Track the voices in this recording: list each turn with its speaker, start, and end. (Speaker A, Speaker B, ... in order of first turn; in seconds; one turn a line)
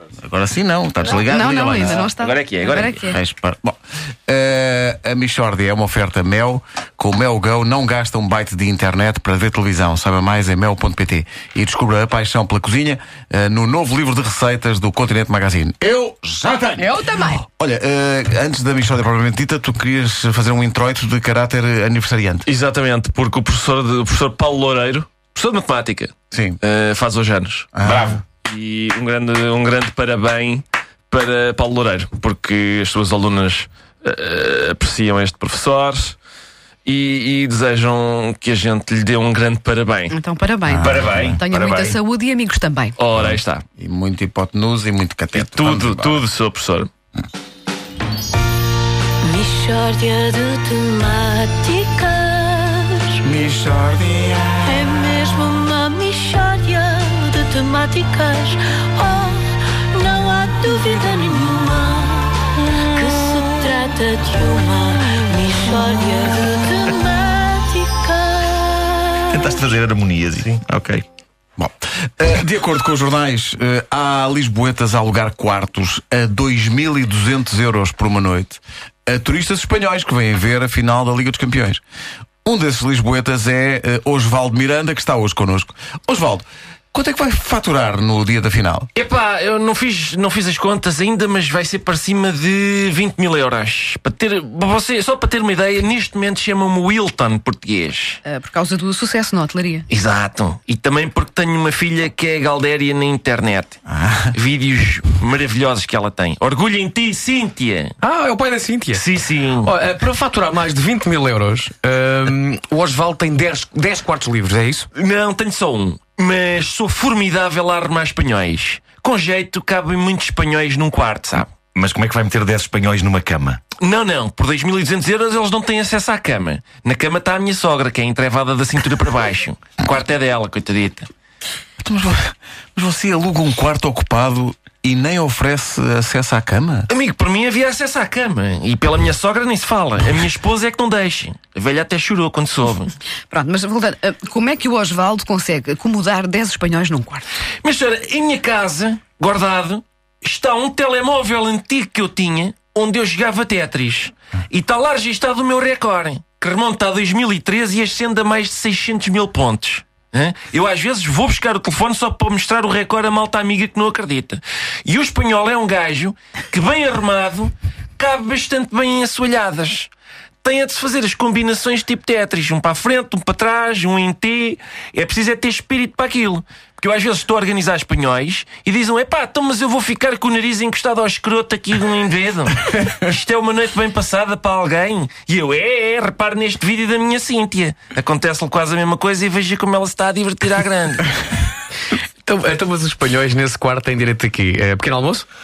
Speaker A: 0.2-2.0
Speaker B: 1.1-3.2
Speaker C: 1.7-3.1
Speaker A: 3.0-22.4
Speaker B: 16.8-17.4
Speaker C: 22.4-36.1
Speaker A: 26.3-26.6
Speaker A: 27.8-28.2
Speaker C: 36.8-40.1
Speaker B: 40.1-43.0
Speaker C: 40.7-42.0
Speaker D: 41.0-41.3
Speaker C: 43.0-43.6
Speaker A: 43.2-46.2
Speaker C: 45.3-46.9
Speaker B: 49.2-53.2
Speaker A: 53.2-54.8
Speaker E: 54.6-55.7
Speaker B: 55.7-57.2
Speaker E: 56.4-59.4
Speaker B: 59.3-59.6
Speaker E: 59.9-69.3
Speaker D: 69.3-71.0
Speaker A: 71.6-81.8
Speaker A: 82.4-88.9
Speaker C: 88.9-98.2
Speaker B: 98.2-99.8
Speaker C: 99.9-103.8
Speaker A: 103.9-104.3
Speaker C: 104.3-108.0
Speaker F: 108.0-109.0
Speaker C: 108.9-109.7
Speaker F: 109.6-114.9
Speaker C: 114.9-121.5
Speaker D: 121.7-123.6
Speaker C: 123.8-131.1
Speaker A: 131.8-136.9
Speaker C: 136.9-142.9
Speaker B: 143.3-147.3
Speaker C: 147.6-169.9
Speaker C: 170.4-191.1
Speaker F: 192.2-195.3